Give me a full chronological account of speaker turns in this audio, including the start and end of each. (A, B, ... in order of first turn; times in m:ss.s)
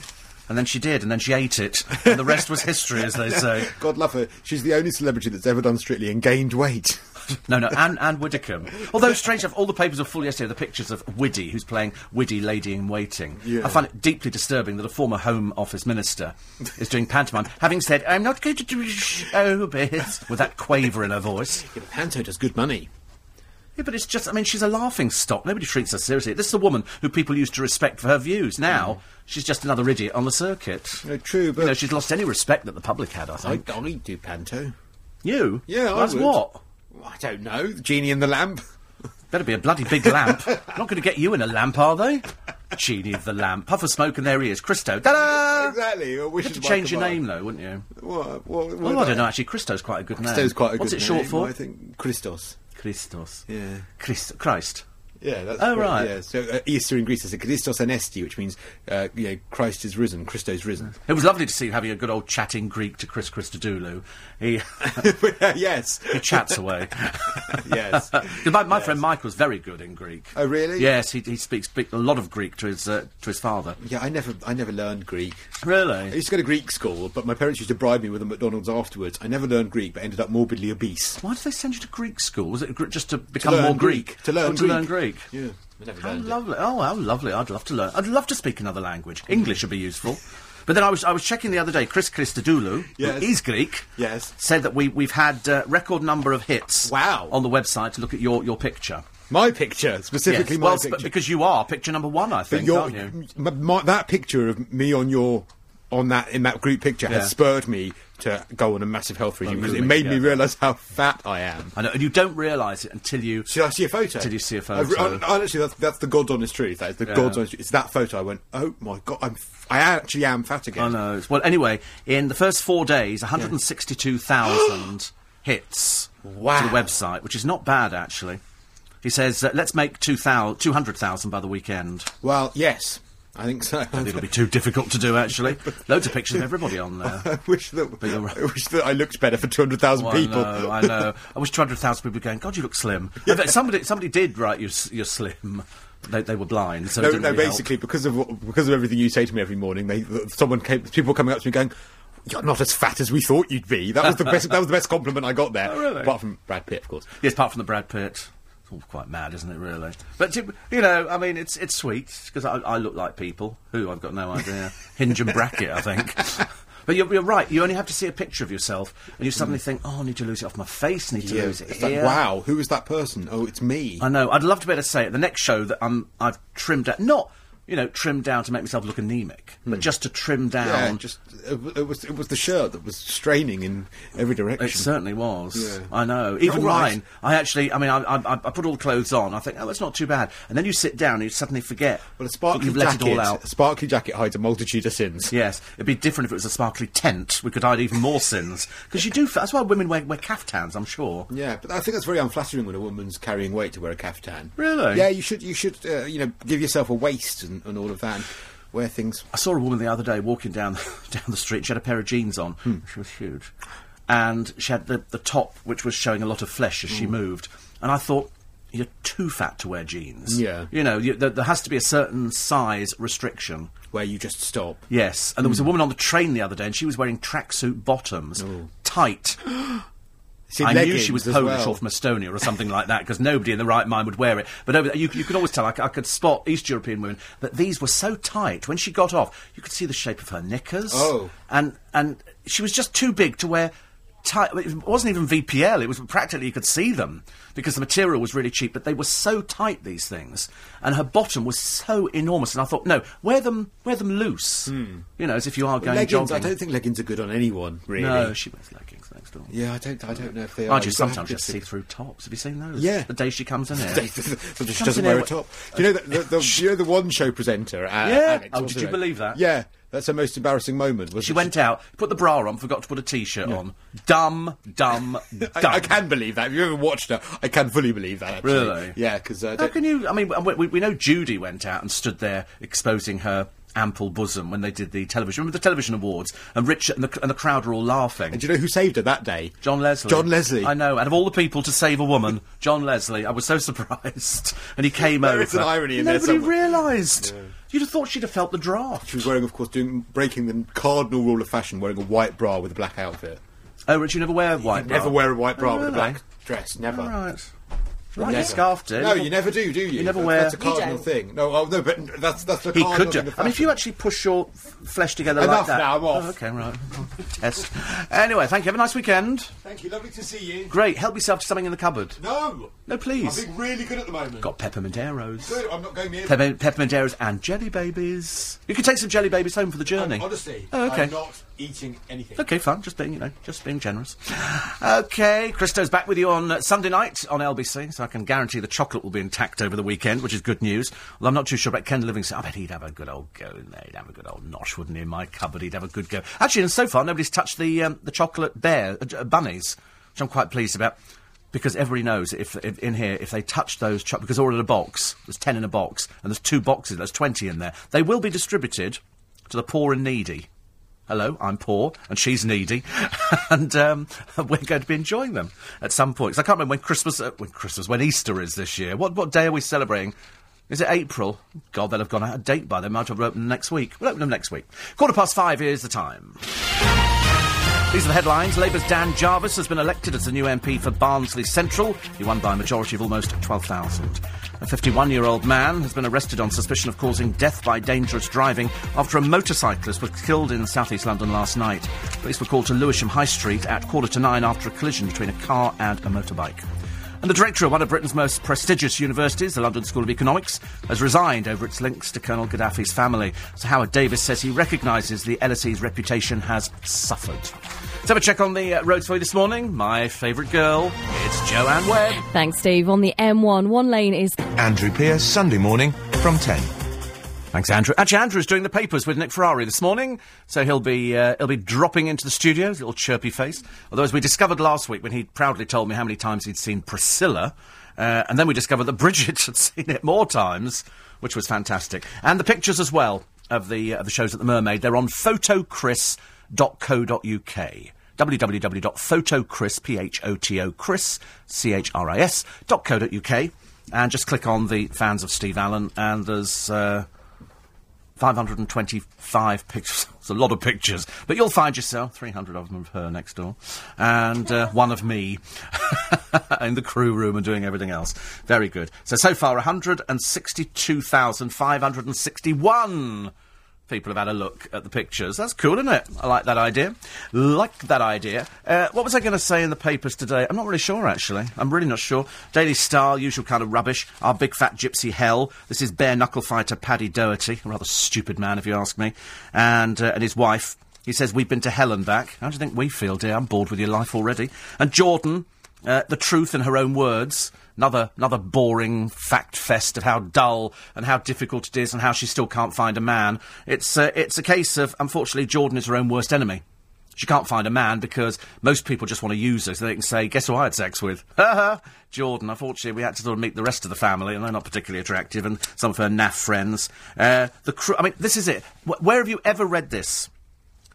0:00.5-0:03.7 A
0:02.0-0:07.4 B
0:07.5-0:21.7 A
0:13.4-0:13.8 B
0:21.6-0:22.9 B
0:23.8-0:31.0 A
0:31.0-0:31.8 B
0:31.6-0:33.7 A
0:33.4-0:34.7 B
0:35.2-0:36.6 A
0:35.7-0:36.4 B
0:36.9-0:38.6 B
0:39.3-0:45.8 A
0:39.9-0:40.8 B
0:45.0-0:47.2 B
0:46.4-0:47.9 A
0:47.9-0:49.3 B
0:48.8-0:51.5 A
0:50.2-0:52.6 B
0:52.8-0:53.4 A
0:53.5-0:53.8 B
0:54.0-0:54.8 A
0:55.2-1:00.9 B
0:55.6-0:56.1 A
1:01.0-1:05.2 A
1:04.8-1:06.6 B
1:06.1-1:13.8 A
1:07.3-1:09.0 B
1:10.3-1:10.9 B
1:13.8-1:15.4 B
1:15.6-1:16.2 A
1:16.1-1:21.2 B
1:21.2-1:25.3 A
1:23.4-1:26.4 B
1:26.0-1:33.8 A
1:32.9-1:34.3 B
1:34.4-1:39.0 A
1:36.8-1:37.4 B
1:39.3-1:41.1 B
1:40.2-1:43.1 A
1:42.5-1:51.7 B
1:47.0-1:47.3 A
1:49.4-1:50.4 A
1:51.7-1:53.5 A
1:53.4-2:01.0 B
1:54.2-1:55.2 A
1:57.0-1:57.4 A
2:00.8-2:08.4 A
2:06.2-2:06.9 B
2:09.0-2:12.1 A
2:12.2-2:14.3 B
2:13.9-2:17.3 A
2:15.3-2:16.5 B
2:17.0-2:21.1 B
2:18.0-2:18.4 A
2:19.9-2:27.7 A
2:23.2-2:23.5 B
2:27.0-2:31.7 B
2:32.2-2:37.1 B
2:35.6-2:36.1 A
2:37.2-2:52.2 A
2:51.2-2:54.0 B
2:54.0-3:01.0 A
3:00.6-3:04.9 B
3:04.6-3:13.4 A
3:05.5-3:07.0 B
3:12.2-3:15.3 B
3:15.3-3:21.3 A
3:21.3-3:29.2 B
3:24.6-3:25.1 A
3:29.3-3:33.5 A
3:34.1-3:43.7 A
3:40.3-3:40.7 B
3:43.9-3:44.8 B
3:44.9-3:49.4 A
3:45.4-3:45.7 B
3:48.4-3:48.7 B
3:50.5-3:51.8 B
3:50.6-4:03.7 A
4:00.9-4:01.3 B
4:04.2-4:16.5 A
4:14.6-4:15.0 B
4:15.8-4:18.4 B
4:18.0-4:19.5 A
4:19.5-4:21.6 B
4:20.7-4:24.1 A
4:22.8-4:23.1 B
4:23.7-4:31.5 B
4:24.7-4:26.6 A
4:28.0-4:29.4 A
4:31.2-4:35.9 A
4:35.4-4:39.8 B
4:38.4-4:39.0 A
4:39.6-4:48.4 A
4:48.3-4:50.7 B
4:49.6-4:59.3 A
4:55.0-4:57.5 B
4:59.0-5:03.4 B
5:03.9-5:06.2 A
5:04.6-5:07.1 B
5:06.9-5:07.5 A
5:08.1-5:10.8 A
5:08.2-5:13.8 B
5:12.7-5:19.5 A
5:15.3-5:16.3 B
5:19.6-5:20.8 B
5:20.7-5:22.2 A
5:22.2-5:24.5 B
5:22.9-5:23.4 A
5:24.4-5:25.6 A
5:25.4-5:26.4 B
5:26.2-5:31.1 A
5:29.9-5:32.5 B
5:32.4-5:51.0 A
5:51.5-6:00.5 A
6:01.1-6:10.1 A
6:10.7-6:16.4 A
6:17.9-6:36.6 A
6:37.2-6:52.2 A
6:52.3-6:54.4 C
6:54.5-6:56.7 D
6:57.5-7:27.1 A
7:28.2-7:43.3 A
7:43.9-8:16.6 A
8:17.2-8:30.3 A